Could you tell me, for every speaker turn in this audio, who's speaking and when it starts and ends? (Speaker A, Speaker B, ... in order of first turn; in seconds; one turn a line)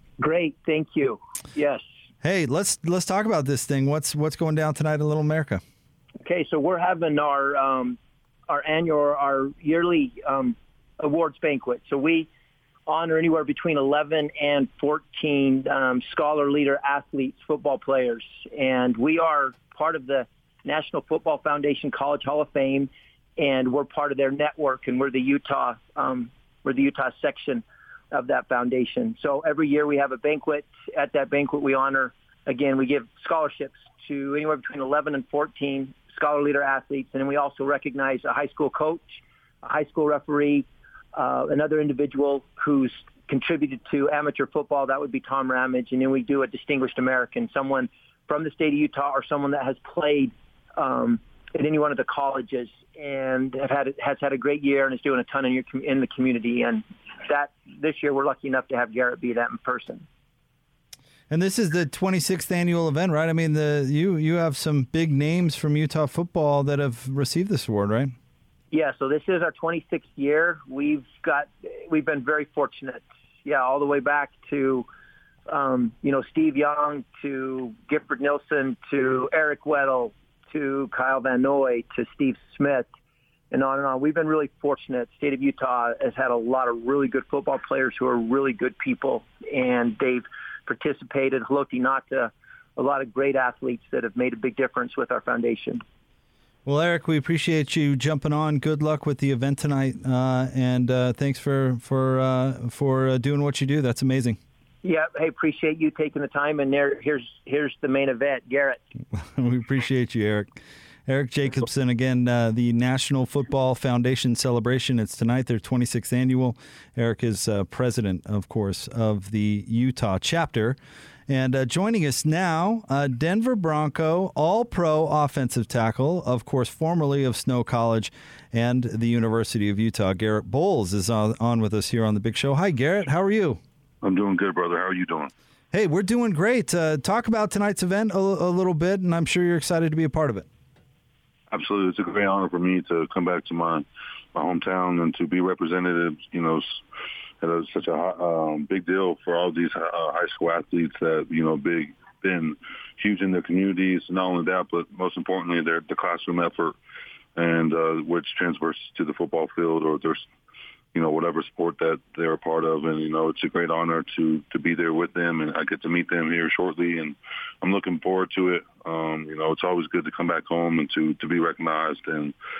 Speaker A: 0.2-1.8
Speaker B: 2.2-5.6
Speaker A: 6.2-8.0
Speaker A: 8.5-12.3
Speaker A: 12.9-39.1
Speaker A: 39.6-60.1
Speaker B: 61.3-68.1
Speaker A: 68.7-74.9
Speaker A: 75.5-82.9
Speaker A: 83.5-95.8
Speaker B: 96.7-104.4
Speaker A: 104.8-108.8
Speaker B: 109.1-110.5
Speaker B: 111.1-133.6
Speaker C: 134.0-135.3
Speaker B: 135.7-140.5
Speaker C: 141.5-146.8
Speaker C: 147.4-156.8
Speaker C: 157.4-160.2
Speaker C: 160.9-172.3